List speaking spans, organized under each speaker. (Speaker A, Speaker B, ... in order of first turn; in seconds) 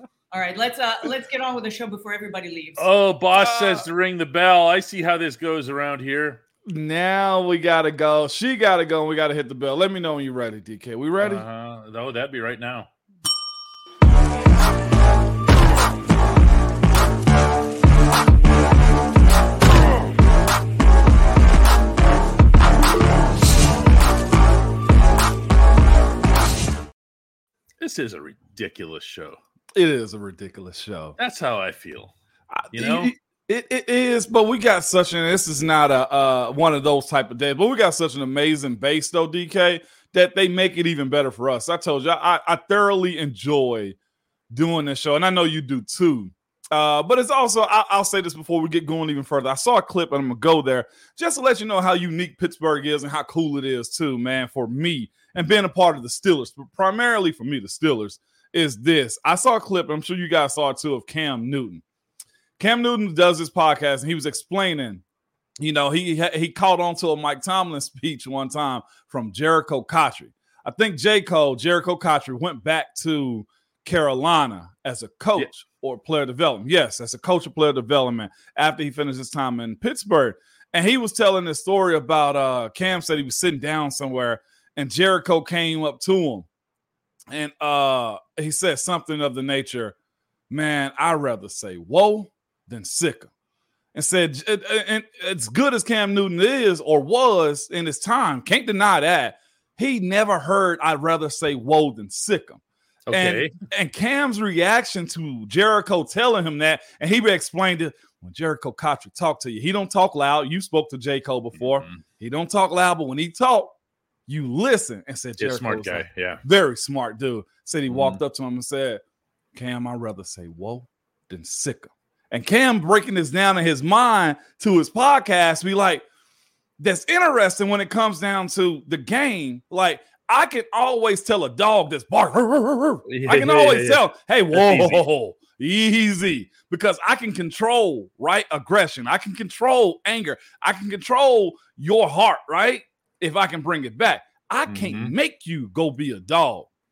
Speaker A: 0.3-2.9
Speaker B: 2.8-6.4, 11.2-12.9, 27.8-29.4, 31.2-32.1, 32.7-33.1, 103.1-103.5, 111.5-112.0, 115.4-116.4, 117.9-118.2, 133.1-135.0, 144.7-145.1
Speaker C: 3.4-3.9, 6.7-11.4, 29.8-31.2, 32.6-44.0, 44.5-61.8, 62.6-65.0, 65.6-86.5, 87.3-90.0, 90.5-93.3, 93.9-113.7, 114.3-119.0, 119.5-126.0, 126.8-146.7